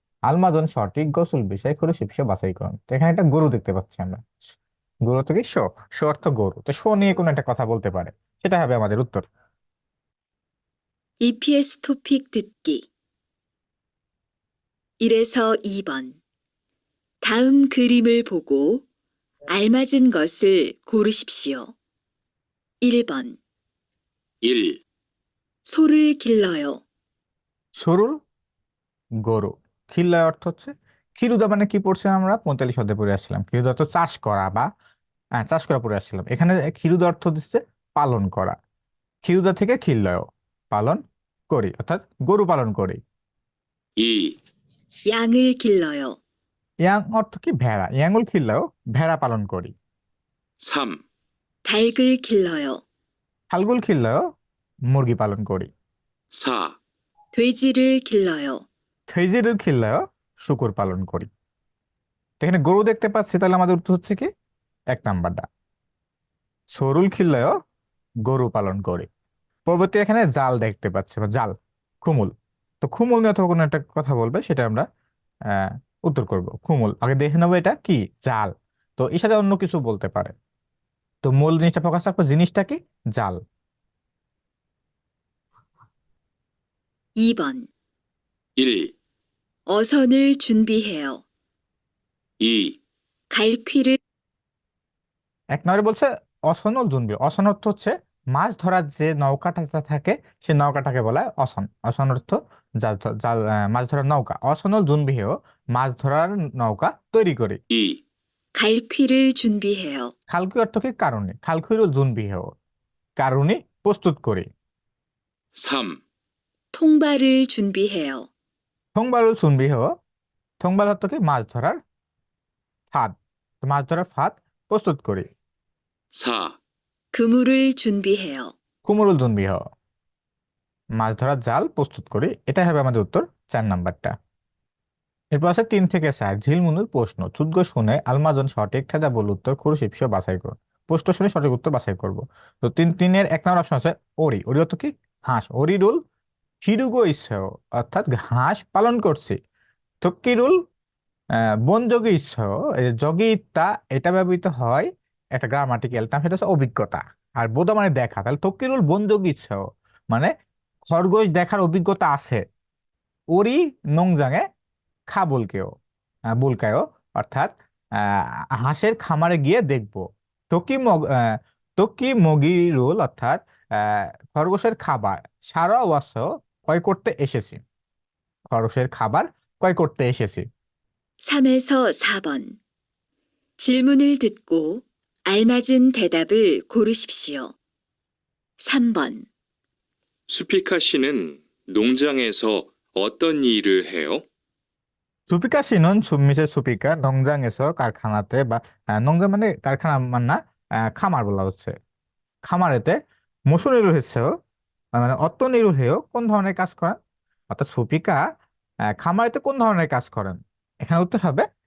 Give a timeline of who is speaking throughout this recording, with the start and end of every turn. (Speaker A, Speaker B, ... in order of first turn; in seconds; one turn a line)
Speaker A: 0.3-4.4
Speaker A: 5.1-9.3
Speaker B: 11.2-12.8
Speaker B: 15.0-16.2
Speaker B: 17.2-18.8
Speaker B: 19.5-21.7
Speaker B: 22.8-23.4
Speaker C: 24.4-24.8
Speaker B: 25.7-26.8
Speaker A: 27.8-28.2
Speaker A: 29.3-34.7
Speaker A: 35.4-38.6
Speaker A: 39.2-43.0
Speaker C: 44.0-44.3
Speaker B: 45.1-46.2
Speaker A: 46.9-49.7
Speaker C: 50.6-51.0
Speaker B: 51.6-52.8
Speaker A: 53.5-54.2
Speaker A: 54.9-55.7
Speaker C: 56.4-56.7
Speaker B: 57.3-58.6
Speaker A: 59.1-61.3
Speaker A: 62.4-64.3
Speaker A: 64.9-65.5
Speaker A: 66.7-67.5
Speaker A: 68.3-69.1
Speaker A: 69.7-74.9
Speaker A: 75.5-80.3
Speaker A: 81.2-83.4
Speaker B: 87.2-87.7
Speaker C: 88.6-88.9
Speaker B: 89.7-91.2
Speaker C: 92.4-92.8
Speaker B: 93.3-94.0
Speaker A: 95.5-107.6
Speaker C: 107.7-108.0
Speaker B: 108.5-110.1
Speaker A: 110.3-112.5
Speaker A: 113.2-114.5
Speaker C: 115.6-116.0
Speaker B: 116.7-118.3
Speaker A: 119.0-119.9
Speaker A: 120.6-121.8
Speaker A: 122.9-125.3
Speaker C: 126.2-126.5
Speaker B: 127.1-128.5
Speaker A: 128.8-129.6
Speaker A: 131.0-134.1
Speaker A: 135.3-146.0
Speaker A: 146.6-149.4
Speaker A: 150.0-150.6
Speaker A: 151.7-160.3
Speaker A: 160.9-162.4
Speaker A: 163.3-164.4
Speaker A: 165.1-165.7
Speaker A: 166.4-177.6
Speaker A: 178.5-180.5
Speaker B: 181.2-182.6
Speaker B: 183.6-187.5
Speaker B: 188.6-189.3
Speaker C: 190.3-194.2
Speaker A: 195.3-201.7
Speaker A: 202.4-202.9
Speaker A: 203.5-204.3
Speaker A: 205.0-207.0
Speaker A: 207.5-208.2
Speaker A: 208.9-211.5